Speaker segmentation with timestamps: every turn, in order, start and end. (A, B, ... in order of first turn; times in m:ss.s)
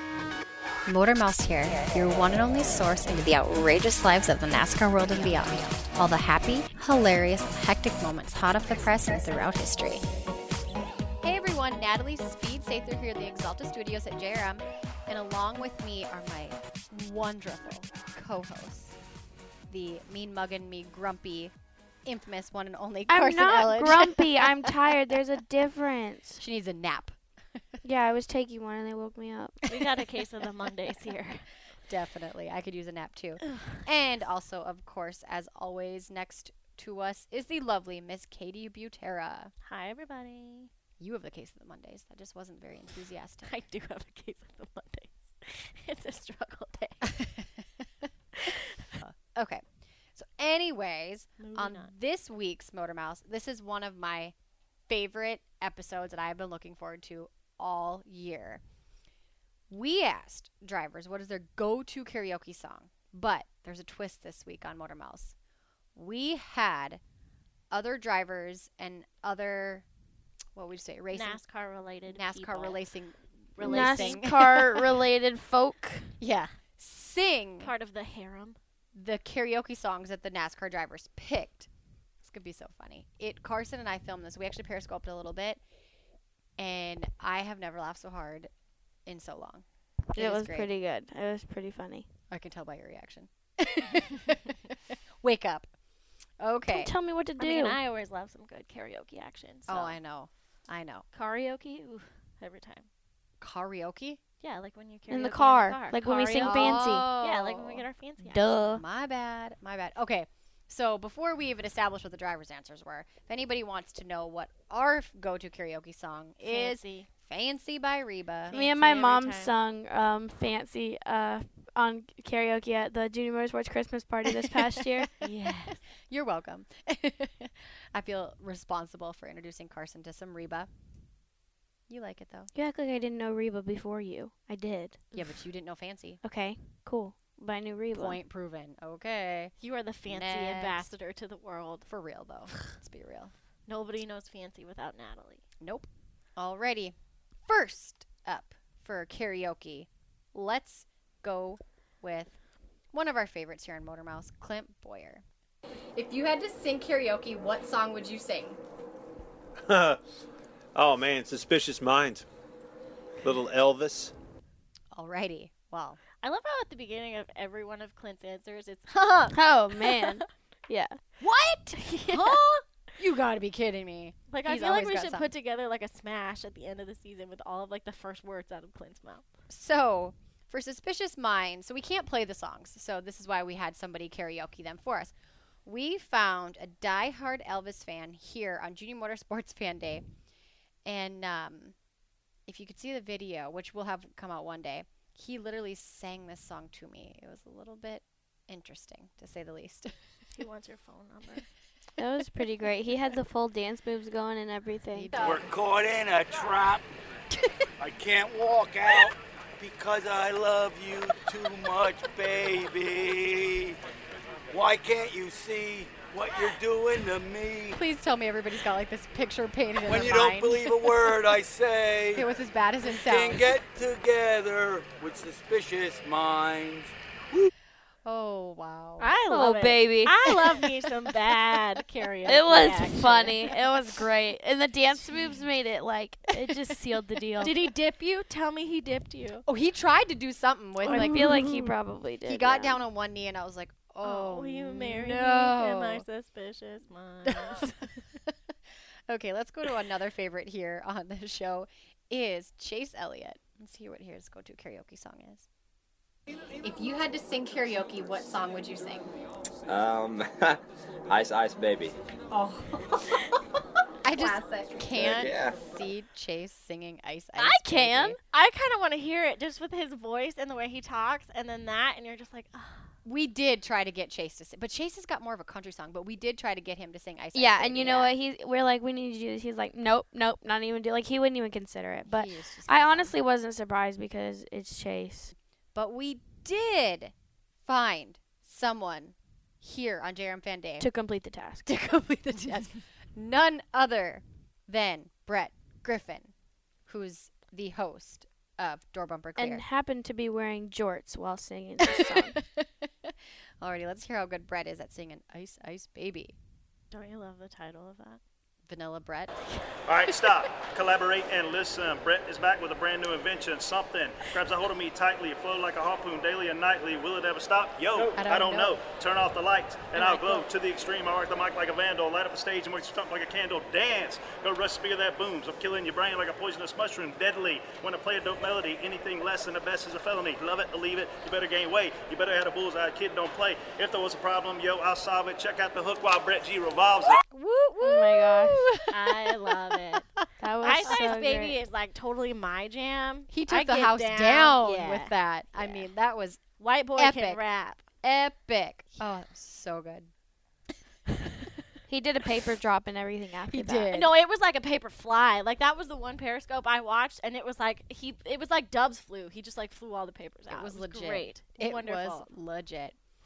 0:00.9-0:10.0 A
0:11.2-0:19.0 A
0:19.7-0:21.5 A
0:22.0-0:25.2 A
0:23.1-0:26.4 B
0:26.4-0:27.2 A
0:27.8-0:29.6 B
0:29.7-0:31.5 C
0:31.9-0:39.5 A
0:39.6-0:40.7 C
0:41.0-0:43.6 A
0:43.5-0:47.2 C
0:47.1-0:47.7 A
0:48.4-0:48.6 C
0:49.0-0:54.4 A
0:51.4-0:51.9 C
0:54.9-0:58.6 A
0:59.7-1:05.4 A
1:06.0-1:07.0 A
1:07.7-1:09.9 A
1:10.6-1:11.4 A
1:11.1-1:12.8 C
1:12.1-1:14.9 A
1:13.6-1:14.2 C
1:13.6-1:16.2 B
1:16.2-1:17.7 A
1:17.6-1:18.6 C
1:18.9-1:21.7 A
1:22.2-1:25.6 A
1:26.6-1:28.5 A
1:29.1-1:30.7 A
1:30.1-1:32.1 B
1:32.3-1:35.7 A
1:36.4-1:36.9 A
1:36.7-1:37.8 B
1:37.4-1:40.0 C
1:39.7-1:41.0 A
1:41.1-1:42.9 C
1:43.4-1:44.2 A
1:44.4-1:48.4 C
1:45.1-1:47.1 B
1:46.4-1:47.9 A
1:48.3-1:48.8 B
1:48.6-1:58.5 A
1:56.4-1:57.1 C
1:58.5-1:59.5 C
1:58.5-2:05.1 B
2:05.0-2:10.7 A
2:05.2-2:05.8 C
2:11.9-2:12.5 A
2:12.6-2:15.0 B
2:15.1-2:16.2 A
2:16.2-2:18.2 B
2:17.9-2:19.5 A
2:19.6-2:21.9 C
2:20.1-2:20.9 A
2:21.9-2:23.3 A
2:23.7-2:25.4 C
2:25.6-2:27.0 A
2:27.5-2:32.4 A
2:32.9-2:35.2 A
2:36.0-2:38.6 A
2:40.8-2:42.2 D
2:43.3-2:44.1 D
2:45.0-2:46.0 A
2:46.2-2:50.2 C
2:49.3-2:51.0 B
2:51.2-2:55.3 A
2:51.7-2:52.4 C
2:54.3-2:59.2 C
2:59.5-3:05.1 A
3:05.6-3:10.0 A
3:10.8-3:11.8 A
3:12.5-3:19.9 A
3:20.4-3:21.5 C
3:22.0-3:25.2 B
3:24.9-3:25.4 A
3:25.2-3:26.9 E
3:27.8-3:33.8 E
3:34.5-3:37.8 E
3:37.7-3:41.1 A
3:39.8-3:42.3 E
3:42.2-3:43.5 A
3:42.8-3:47.5 E
3:48.0-3:49.1 A
3:49.0-3:53.6 C
3:49.3-3:50.2 B
3:52.3-3:57.6 B
3:57.4-3:59.5 C
3:59.5-4:01.3 A
4:00.8-4:01.7 C
4:00.9-4:02.8 B
4:02.3-4:06.0 A
4:04.0-4:07.9 C
4:07.3-4:08.4 A
4:09.1-4:15.5 A
4:16.6-4:19.1 A
4:19.7-4:22.0 F
4:22.3-4:22.8 A
4:24.0-4:28.2 A
4:24.9-4:25.6 F
4:27.4-4:28.2 B
4:28.3-4:32.9 C
4:33.0-4:38.1 A
4:37.3-4:45.4 B
4:42.1-4:43.1 A
4:45.7-4:47.1 A
4:47.6-4:50.9 A
4:50.8-4:51.7 B
4:51.7-4:56.3 A
4:56.9-4:59.6 A
4:59.4-5:02.4 B
5:01.8-5:06.4 A
5:06.9-5:08.2 C
5:08.7-5:09.4 A
5:09.9-5:37.2 G
5:18.1-5:18.8 A
5:20.0-5:20.5 A
5:37.3-5:39.2 A
5:37.8-5:38.6 B
5:38.9-5:40.1 C
5:40.4-5:41.6 B
5:40.6-5:45.9 C
5:40.8-5:41.1 A
5:43.3-5:46.4 A
5:46.6-5:47.9 C
5:47.0-5:47.4 A
5:48.0-5:50.1 A
5:51.9-5:53.9 B
5:53.5-5:54.2 A
5:53.9-6:02.3 C
6:00.5-6:03.0 A